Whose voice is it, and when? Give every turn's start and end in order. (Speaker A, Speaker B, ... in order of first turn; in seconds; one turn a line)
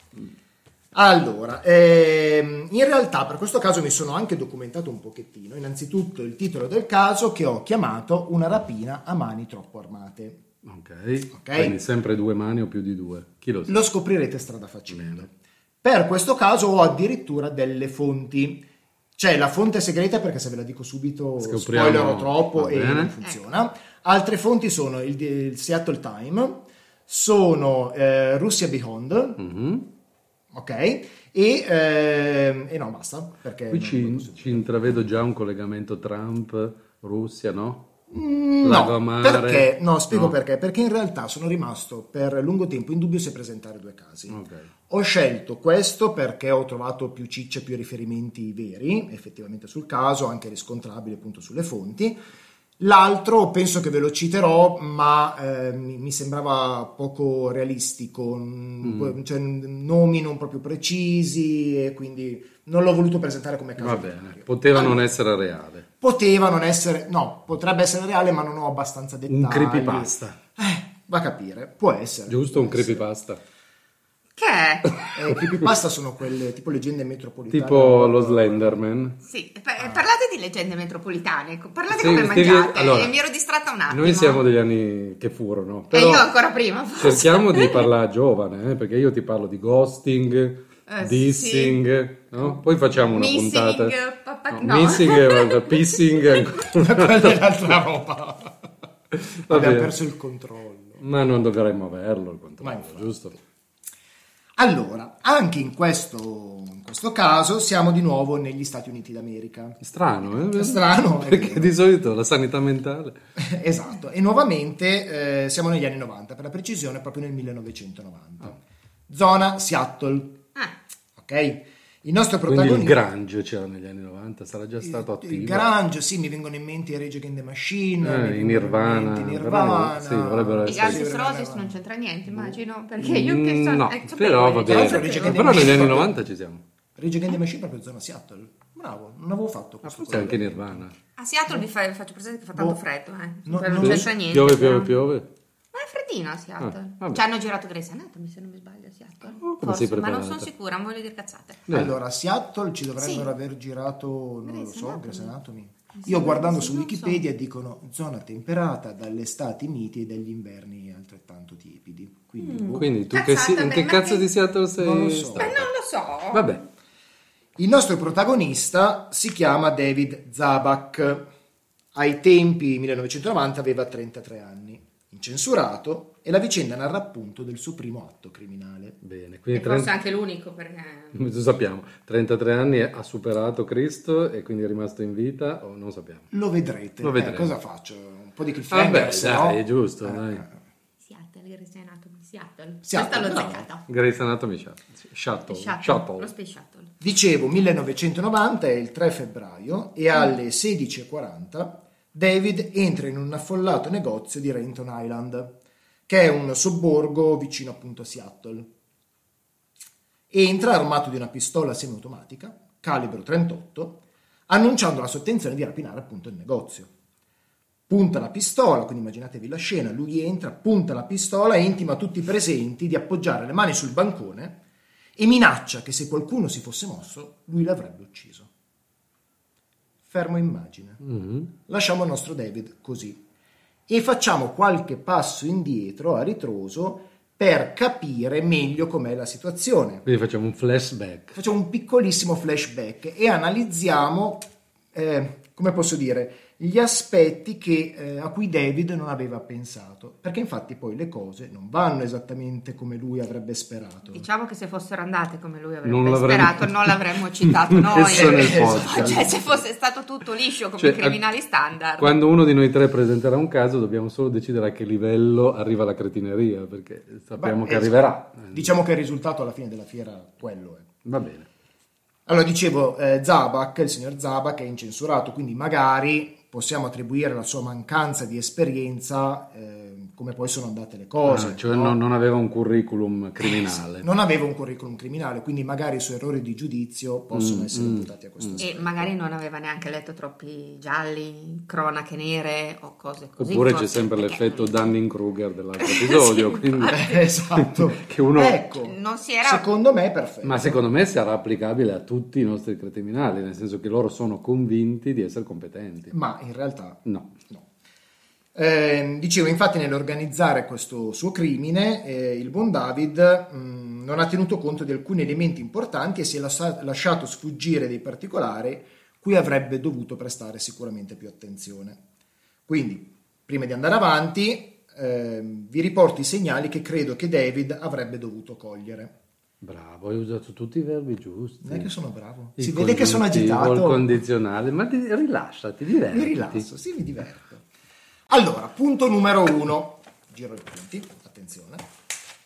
Speaker A: 0.9-10.4
Speaker B: 10.6-13.8
Speaker A: 11.3-11.8
Speaker A: 13.7-15.3
Speaker B: 14.9-15.2
Speaker A: 15.8-18.6
Speaker A: 19.2-29.4
Speaker B: 21.4-23.1
Speaker B: 29.4-29.9
Speaker A: 30.5-34.7
Speaker B: 33.7-37.9
Speaker A: 38.1-52.2
Speaker B: 38.6-40.3
Speaker B: 44.3-44.7
Speaker A: 52.8-65.0
Speaker B: 58.8-59.1
Speaker B: 63.8-65.8
Speaker A: 66.0-73.0
Speaker B: 69.3-70.4
Speaker B: 72.3-73.4
Speaker C: 74.4-75.1
Speaker A: 75.1-78.8
Speaker B: 77.5-79.2
Speaker C: 79.2-84.5
Speaker B: 81.9-83.1
Speaker B: 83.9-86.3
Speaker C: 85.9-87.9
Speaker B: 87.0-93.9
Speaker C: 90.9-91.8
Speaker C: 92.4-95.8
Speaker B: 94.5-97.4
Speaker A: 96.7-98.5
Speaker B: 99.1-99.9
Speaker A: 99.5-101.0
Speaker B: 101.0-103.3
Speaker A: 102.6-103.4
Speaker A: 104.6-111.8
Speaker B: 109.8-113.2
Speaker A: 113.4-118.6
Speaker A: 119.1-120.4
Speaker A: 121.2-123.0
Speaker B: 122.5-125.7
Speaker A: 124.8-131.8
Speaker B: 128.0-131.0
Speaker C: 130.7-135.8
Speaker B: 133.0-136.6
Speaker A: 134.7-136.2
Speaker A: 136.9-140.9
Speaker B: 139.8-140.9
Speaker C: 141.2-144.9
Speaker A: 143.4-144.1
Speaker B: 143.8-145.3
Speaker C: 145.7-151.6
Speaker B: 146.6-147.2
Speaker B: 149.4-150.5
Speaker B: 151.7-151.9
Speaker A: 151.7-162.9
Speaker C: 153.0-153.3
Speaker C: 154.4-155.3
Speaker C: 155.9-157.2
Speaker C: 162.4-164.3
Speaker B: 162.7-165.7
Speaker A: 164.8-165.5
Speaker C: 165.4-166.6
Speaker B: 166.3-166.6
Speaker A: 167.6-171.3
Speaker A: 171.9-178.9
Speaker B: 179.0-179.9
Speaker C: 179.5-181.2
Speaker B: 181.1-186.3
Speaker A: 186.3-190.5
Speaker B: 187.0-187.5
Speaker B: 188.7-190.4
Speaker C: 191.0-193.8
Speaker A: 192.8-193.7
Speaker B: 193.9-196.3
Speaker C: 195.5-196.9
Speaker A: 197.0-205.5
Speaker A: 206.1-208.7
Speaker A: 210.3-216.9
Speaker A: 217.9-224.6
Speaker A: 225.2-228.5
Speaker A: 230.1-231.0
Speaker B: 231.0-231.5
Speaker A: 231.7-233.2
Speaker A: 233.9-240.0
Speaker B: 240.1-241.4
Speaker A: 241.3-254.2
Speaker C: 254.1-262.2
Speaker B: 255.8-259.3
Speaker A: 258.1-259.4
Speaker B: 260.8-261.2
Speaker B: 262.0-268.7
Speaker A: 267.4-270.9
Speaker B: 271.0-271.5
Speaker A: 272.2-282.0
Speaker B: 281.2-284.1
Speaker A: 283.4-289.1
Speaker B: 287.3-288.6
Speaker C: 288.6-294.9
Speaker B: 293.4-298.6
Speaker C: 295.8-297.2
Speaker A: 296.9-300.8
Speaker C: 298.7-299.6
Speaker B: 300.4-306.1
Speaker A: 306.1-307.6
Speaker B: 307.0-307.3
Speaker A: 308.5-322.0
Speaker A: 322.7-329.1
Speaker B: 329.6-331.9
Speaker A: 331.6-334.1
Speaker B: 332.6-336.6
Speaker A: 336.1-337.6
Speaker A: 338.3-341.8